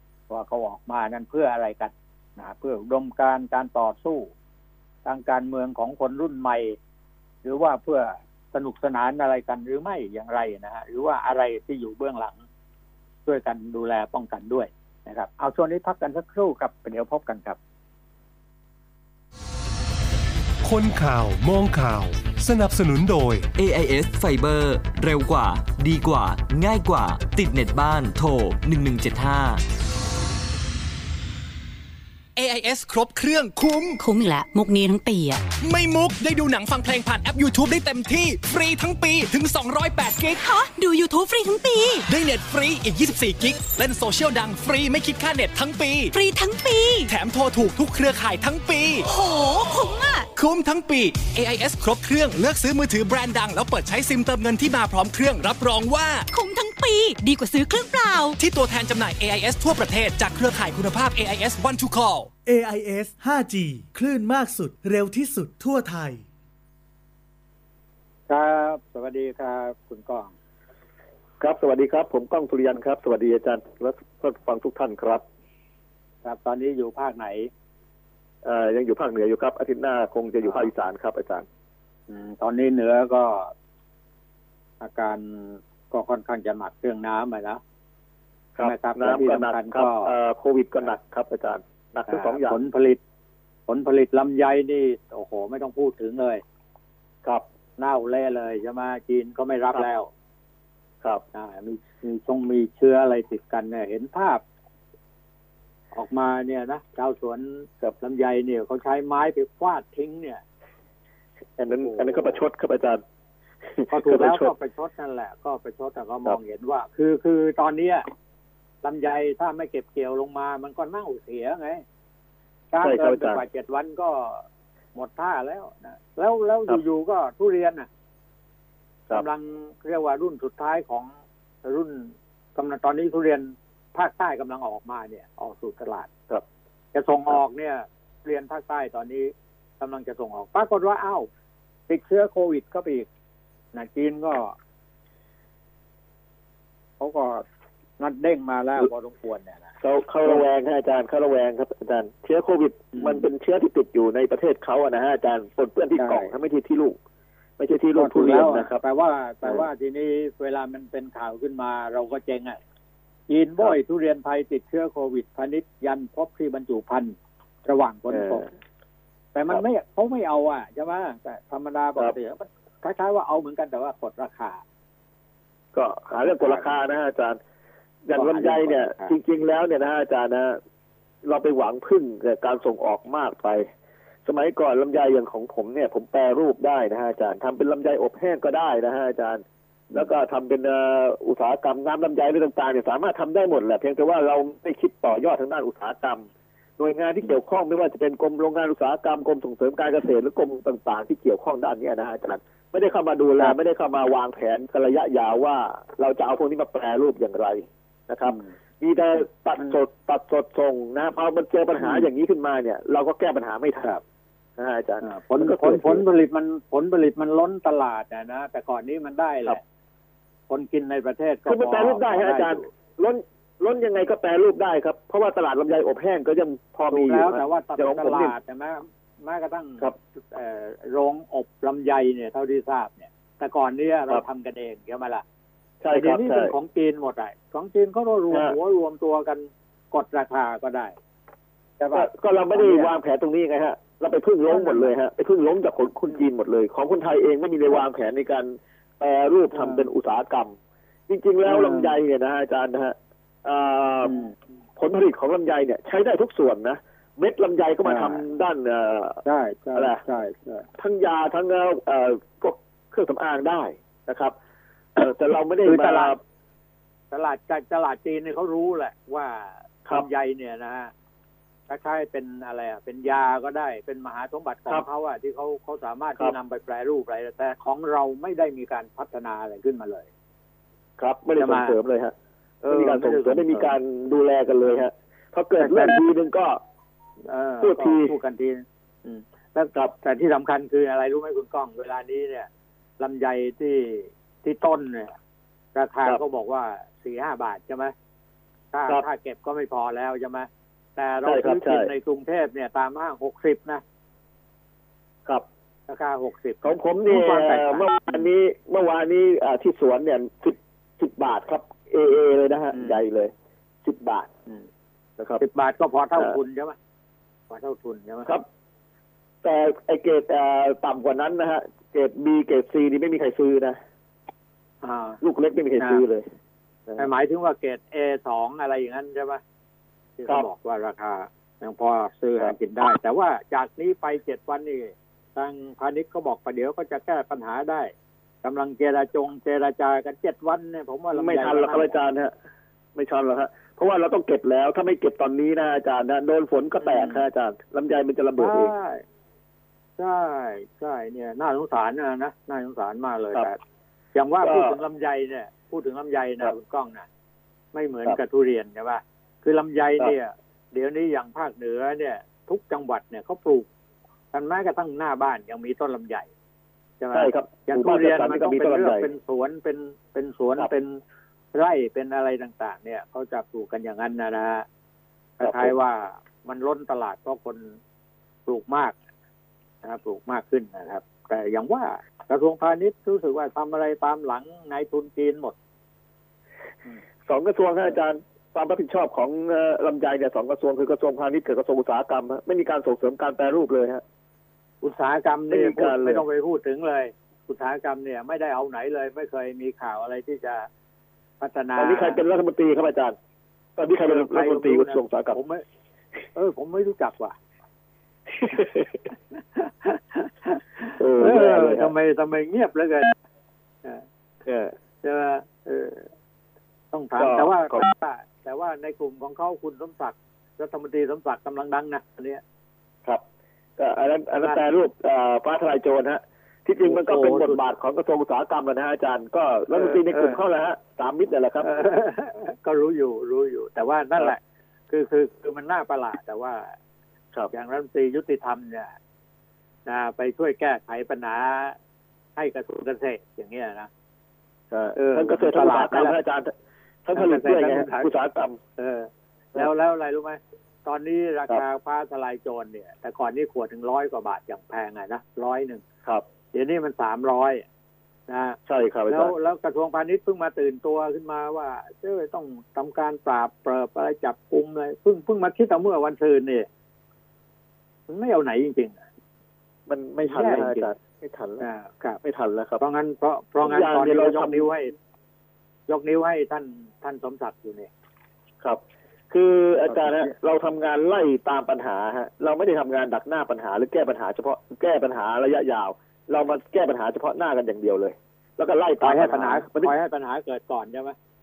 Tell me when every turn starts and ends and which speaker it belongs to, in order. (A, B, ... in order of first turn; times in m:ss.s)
0:00.3-0:04.3 A
0:05.0-0:06.8 A
0:07.4-0:12.4 A
0:13.3-0:17.6 A
0:20.6-0:23.5 B
0:23.6-0:29.6 C
0:32.4-0:34.0 D
0:34.0-0:35.4 E
0:35.6-0:40.4 D
0:40.4-0:42.0 E
0:42.1-0:46.1 D
0:46.1-0:47.1 E
0:47.1-0:49.1 D
0:49.0-0:50.3 E
0:50.4-0:56.3 D
0:56.3-0:58.4 E
0:58.4-1:02.3 D
1:02.5-1:06.2 F
1:08.3-1:10.3 A
1:11.4-1:15.2 G
1:16.2-1:17.5 A
1:18.4-1:21.5 G
1:22.1-1:23.5 A
1:24.8-1:27.6 A
1:28.6-1:32.6 G
1:28.6-1:30.1 A
1:32.1-1:33.0 A
1:33.7-1:36.4 A
1:37.8-1:40.1 A
1:41.3-1:44.4 A
1:45.9-1:50.4 A
1:51.6-1:53.0 G
1:51.7-1:52.4 A
1:53.8-1:54.5 G
1:53.9-1:58.1 A
1:58.8-2:01.8 A
2:02.7-2:07.9 A
2:02.8-2:03.4 G
2:09.1-2:11.1 A
2:11.6-2:16.1 A
2:16.9-2:21.3 A
2:21.9-2:23.1 A
2:23.7-2:24.6 A
2:27.0-2:27.4 A
2:28.0-2:29.7 A
2:29.8-2:37.0 G
2:32.9-2:33.3 A
2:36.0-2:36.3 A
2:37.6-2:38.8 G
2:38.0-2:42.6 A
2:43.3-2:48.5 A
2:48.1-2:48.5 G
2:49.3-2:54.6 A
2:55.7-2:57.4 G
2:56.1-2:56.7 A
2:58.0-3:00.6 G
2:58.1-2:59.2 A
3:01.2-3:03.7 G
3:04.2-3:16.3 G
3:16.8-3:33.9 G
3:28.2-3:28.5 A
3:31.8-3:32.1 A
3:34.6-3:36.0 G
3:35.0-3:39.6 A
3:40.5-3:42.7 A
3:41.5-3:48.3 G
3:46.9-3:55.2 A
3:55.8-3:56.5 G
3:55.9-4:01.0 A
3:58.3-3:58.6 G
4:01.8-4:02.9 A
4:01.9-4:10.6 G
4:04.5-4:04.9 A
4:09.5-4:09.9 A
4:11.1-4:14.2 G
4:11.5-4:12.0 A
4:14.0-4:14.3 A
4:14.8-4:19.2 G
4:17.8-4:18.2 A
4:19.2-4:20.6 A
4:19.8-4:20.0 G
4:20.8-4:24.4 G
4:25.0-4:26.2 G
4:25.6-4:26.2 A
4:27.1-4:30.9 A
4:31.7-4:40.1 A
4:41.0-4:42.1 G
4:41.4-4:41.8 A
4:42.6-4:43.8 A
4:42.6-4:46.6 G
4:45.6-4:46.0 A
4:47.3-4:52.5 A
4:47.6-4:48.2 G
4:53.0-4:55.1 A
4:55.8-4:57.9 A
4:58.7-5:03.8 A
5:01.2-5:01.9 G
5:05.9-5:08.3 A
5:06.6-5:13.3 G
5:12.7-5:13.0 A
5:13.8-5:14.3 G
5:15.4-5:16.8 A
5:17.5-5:18.3 A
5:19.4-5:23.8 G
5:24.8-5:25.2 A
5:25.2-5:26.2 G
5:27.0-5:29.4 A
5:30.2-5:37.9 A
5:38.4-5:42.0 A
5:41.1-5:42.3 G
5:43.0-5:48.7 G
5:46.8-5:47.2 A
5:48.4-5:49.0 A
5:50.0-5:53.6 A
5:54.1-5:57.1 A
5:54.4-5:54.8 G
5:57.7-6:03.7 A
6:04.3-6:06.3 A
6:07.0-6:11.0 A
6:07.1-6:09.1 G
6:11.5-6:14.6 A
6:15.4-6:17.8 A
6:15.4-6:15.7 G
6:18.5-6:19.0 A
6:19.8-6:25.6 A
6:27.3-6:34.0 G
6:34.8-6:40.7 A
6:35.5-6:36.2 G
6:41.4-6:42.2 A
6:41.8-6:43.2 G
6:43.8-6:45.4 G
6:43.9-6:45.6 A
6:46.4-6:47.4 A
6:48.4-6:48.9 G
6:49.6-6:53.2 A
6:51.0-6:51.9 G
6:54.4-6:54.8 G
6:55.0-6:56.1 A
6:56.9-7:02.4 A
6:57.2-6:57.9 G
7:03.8-7:11.7 G
7:06.8-7:07.6 A
7:09.7-7:10.4 A
7:11.6-7:16.7 A
7:17.5-7:18.9 A
7:19.9-7:21.8 A
7:22.4-7:23.9 A
7:24.7-7:26.5 G
7:25.0-7:26.2 A
7:27.0-7:28.6 G
7:27.1-7:28.1 A
7:28.8-7:35.8 A
7:36.5-7:37.6 A
7:38.3-7:38.6 A
7:38.7-7:39.3 G
7:39.1-7:46.7 A
7:48.1-7:49.0 A
7:49.9-7:51.7 G
7:50.3-7:50.9 A
7:51.6-7:52.2 A
7:52.2-7:52.8 G
7:52.8-7:54.9 A
7:53.6-7:54.7 G
7:55.9-7:57.9 A
7:58.6-8:09.9 G
7:59.9-8:00.3 A
8:09.0-8:11.2 A